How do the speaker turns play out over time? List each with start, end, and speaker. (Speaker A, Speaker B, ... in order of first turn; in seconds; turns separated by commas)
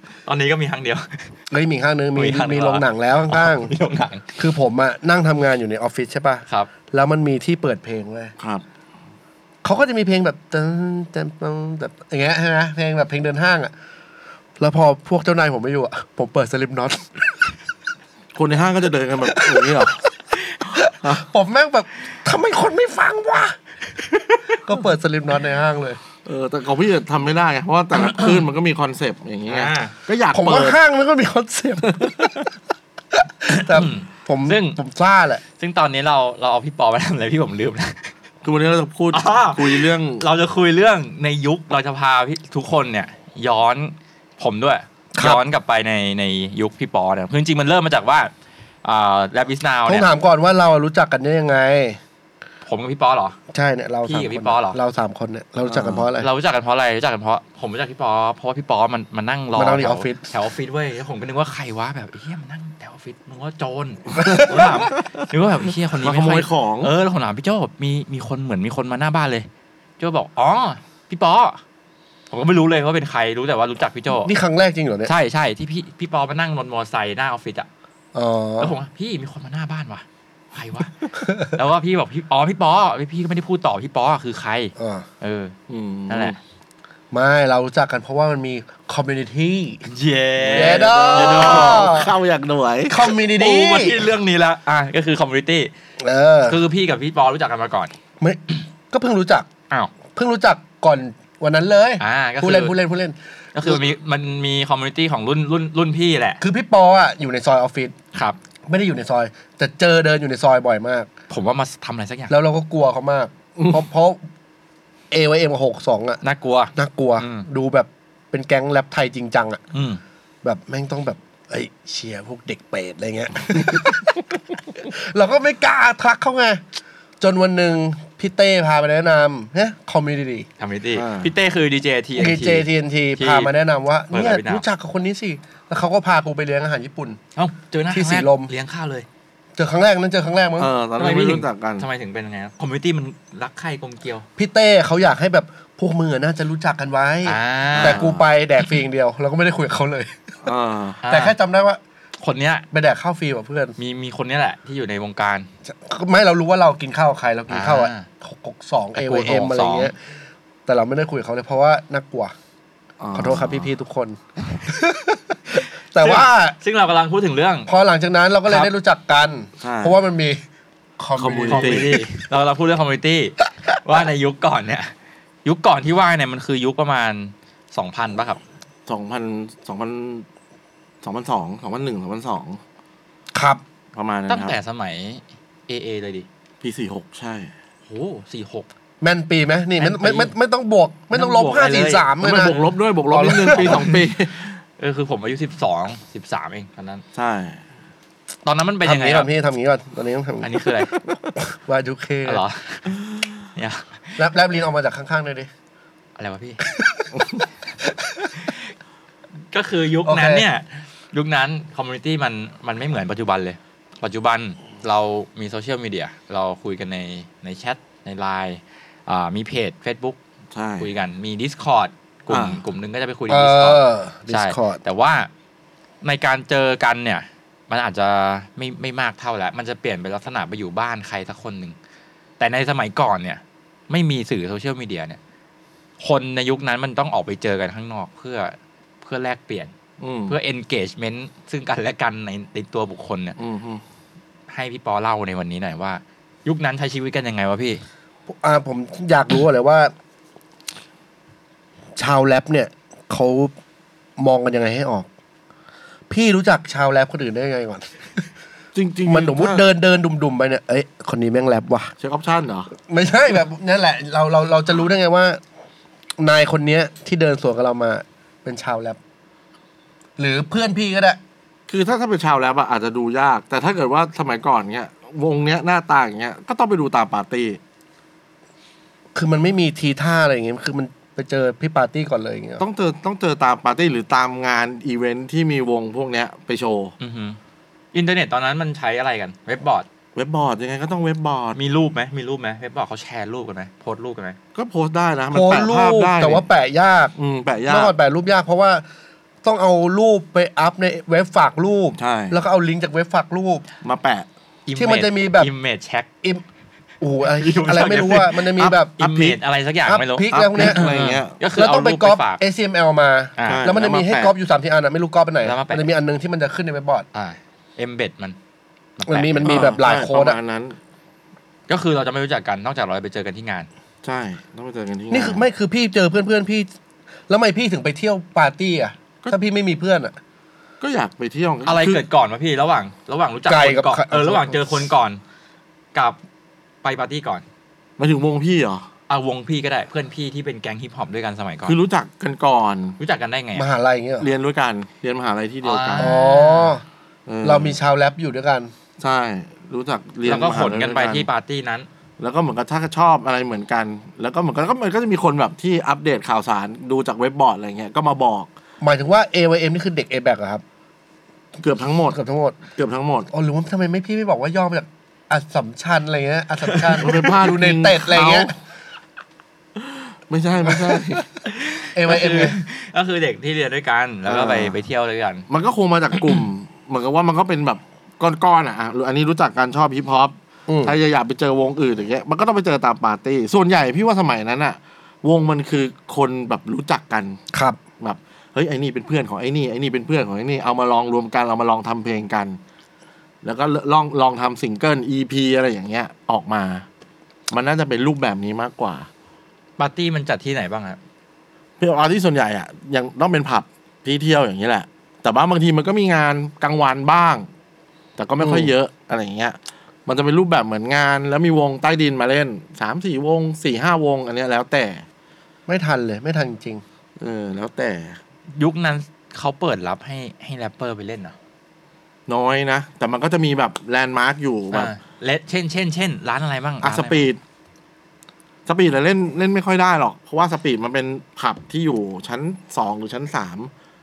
Speaker A: 0.3-1.2, Speaker B: 1.5-3.7, Speaker A: 2.1-4.4, Speaker B: 4.4-8.3, Speaker C: 8.4-8.6, Speaker B: 9.6-13.7, Speaker B: 14.6-17.5, Speaker C: 18.4-20.0, Speaker B: 19.3-19.9, Speaker B: 20.6-23.6, Speaker B: 24.5-26.0, Speaker C: 26.2-30.8, Speaker A: 29.5-29.9, Speaker B: 30.3-32.3, Speaker C: 31.8-32.5, Speaker B: 33.1-35.4, Speaker A: 33.5-34.8, Speaker A: 35.6-38.1, Speaker C: 38.4-40.2, Speaker A: 39.1-48.3, Speaker B: 45.1-45.4, Speaker A: 48.8-50.1, Speaker B: 49.9-52.0, Speaker A: 52.6-53.4, Speaker B: 53.5-56.3, Speaker A: 54.0-54.8, Speaker C: 55.6-56.1, Speaker A: 56.2-69.5, Speaker B: 59.5-60.3, Speaker B: 64.2-64.6, Speaker C: 65.9-66.9, Speaker A: 70.0-71.6, Speaker A: 72.3-74.3, Speaker B: 74.2-75.1, Speaker A: 75.0-77.7, Speaker B: 78.1-78.7, Speaker A: 78.6-85.5, Speaker B: 81.2-81.5, Speaker B: 84.8-85.0, Speaker C: 85.7-86.3, Speaker A: 86.1-86.4, Speaker B: 87.1-89.8, Speaker A: 89.8-91.9, Speaker C: 90.4-93.1, Speaker B: 90.5-92.1, Speaker B: 92.9-94.1, Speaker A: 93.4-95.7, Speaker B: 96.0-96.6, Speaker A: 96.5-97.9, Speaker B: 98.2-99.5, Speaker B: 100.1-103.8, Speaker A: 102.0-102.7, Speaker A: 103.5-106.4, Speaker B: 106.4-107.9, Speaker B: 108.7-111.1, Speaker A: 111.3-112.3, Speaker B: 112.3-114.2, Speaker B: 115.1-116.2, Speaker A: 116.2-117.5, Speaker B: 116.8-119.6, Speaker A: 119.7-120.0, Speaker B: 120.4-126.6, Speaker B: 127.2-130.5, Speaker A: 130.6-133.5, Speaker C: 130.9-131.3, Speaker B: 132.2-137.2, Speaker A: 134.1-134.6, Speaker A: 137.3-139.1, Speaker B: 137.9-138.5, Speaker B: 139.6-140.7, Speaker C: 140.6-141.9, Speaker A: 141.0-144.3, Speaker B: 144.4-150.2, Speaker A: 147.2-148.1, Speaker C: 147.7-148.2, Speaker C: 150.4-151.0, Speaker A: 151.0-151.3, Speaker B: 151.1-151.8, Speaker A: 152.2-152.7, Speaker B: 152.7-153.8, Speaker A: 153.8-155.5, Speaker B: 155.7-159.9, Speaker A: 157.5-158.1, Speaker A: 158.9-159.9, Speaker B: 160.7-162.3, Speaker C: 163.0-163.7, Speaker B: 163.1-166.6, Speaker A: 166.0-167.7, Speaker B: 167.7-170.4, Speaker C: 169.6-169.9, Speaker B: 171.0-172.1, Speaker C: 171.2-171.9, Speaker A: 171.5-174.9, Speaker A: 175.4-178.4, Speaker C: 178.9-180.2, Speaker C: 181.0-182.6, Speaker B: 183.3-183.6, Speaker C: 183.9-184.5, Speaker A: 184.3-186.3, Speaker C: 186.6-187.5, Speaker A: 187.8-188.7, Speaker B: 189.0-192.6, Speaker A: 189.8-190.3, Speaker A: 191.1-192.1, Speaker C: 191.7-194.6, Speaker B: 193.1-193.9, Speaker A: 193.5-194.0, Speaker A: 194.8-197.0, Speaker C: 197.1-197.6, Speaker A: 198.4-199.3, Speaker B: 198.8-200.7, Speaker A: 200.4-200.9, Speaker B: 201.4-202.4, Speaker A: 202.2-202.9, Speaker A: 203.5-204.2, Speaker B: 204.2-205.5, Speaker A: 206.2-206.6, Speaker B: 206.7-207.1, Speaker B: 207.8-208.3, Speaker A: 209.5-220.2, Speaker B: 210.0-210.5, Speaker C: 220.5-220.9, Speaker A: 220.8-225.3, Speaker C: 222.3-222.6, Speaker B: 223.3-224.8, Speaker A: 226.0-231.8, Speaker A: 232.4-235.2, Speaker A: 236.0-239.7, Speaker C: 240.0-240.3, Speaker A: 240.3-243.3, Speaker C: 243.4-243.8, Speaker A: 244.5-247.8, Speaker B: 248.3-249.9, Speaker B: 251.9-253.5, Speaker B: 254.2-255.1, Speaker B: 256.1-258.2, Speaker C: 258.7-259.6, Speaker B: 259.1-261.9, Speaker C: 262.0-262.7, Speaker B: 262.8-265.4, Speaker B: 266.2-269.0, Speaker B: 270.2-271.2, Speaker C: 271.7-277.6, Speaker B: 279.1-282.6, Speaker C: 282.6-286.9, Speaker A: 287.0-287.4, Speaker A: 287.9-289.9, Speaker C: 290.1-291.6, Speaker A: 291.5-294.4, Speaker C: 294.5-296.4, Speaker B: 295.3-297.1, Speaker C: 297.2-297.9, Speaker B: 297.7-298.8, Speaker B: 299.4-303.6, Speaker C: 302.0-302.4, Speaker C: 303.8-304.3, Speaker A: 304.6-306.1, Speaker B: 304.8-305.5, Speaker B: 307.0-308.9, Speaker A: 307.3-312.4, Speaker C: 308.7-309.4, Speaker B: 309.9-310.9, Speaker C: 310.3-311.4, Speaker B: 311.5-317.1, Speaker A: 313.4-313.6, Speaker C: 313.4-314.3, Speaker A: 315.4-315.9, Speaker A: 317.1-318.4, Speaker A: 319.0-319.7, Speaker B: 319.1-320.4, Speaker C: 319.4-320.8, Speaker A: 321.7-323.7, Speaker C: 324.0-325.4, Speaker B: 325.1-326.7, Speaker B: 327.3-330.2, Speaker C: 330.8-332.0, Speaker A: 331.6-335.2, Speaker B: 333.5-334.9, Speaker A: 336.8-337.4, Speaker C: 338.0-338.9, Speaker A: 339.1-341.8, Speaker C: 341.6-343.0, Speaker A: 343.0-343.7, Speaker B: 343.6-344.3, Speaker C: 344.2-346.1, Speaker A: 345.6-346.8, Speaker B: 346.0-346.8, Speaker C: 347.3-347.8, Speaker B: 347.4-348.7, Speaker C: 349.0-351.3, Speaker A: 350.2-351.9, Speaker C: 352.2-358.5, Speaker B: 358.8-360.6, Speaker C: 361.6-362.2, Speaker B: 362.1-362.6, Speaker C: 362.8-363.3, Speaker B: 363.3-368.5, Speaker A: 366.6-367.3, Speaker C: 367.0-368.5, Speaker C: 369.8-371.2, Speaker B: 370.6-371.2, Speaker A: 371.4-375.4, Speaker B: 371.9-372.6, Speaker C: 374.3-374.8, Speaker C: 375.5-387.4, Speaker B: 380.7-380.9, Speaker B: 387.5-387.8, Speaker C: 388.0-392.6, Speaker C: 393.4-396.8, Speaker C: 397.5-399.1, Speaker A: 399.8-401.0, Speaker C: 401.8-407.5, Speaker C: 408.2-415.0, Speaker B: 408.4-408.7, Speaker B: 415.7-416.8, Speaker C: 417.2-418.2, Speaker A: 418.5-421.3, Speaker C: 422.3-424.9, Speaker A: 424.7-427.2, Speaker C: 426.8-427.4, Speaker C: 428.6-433.7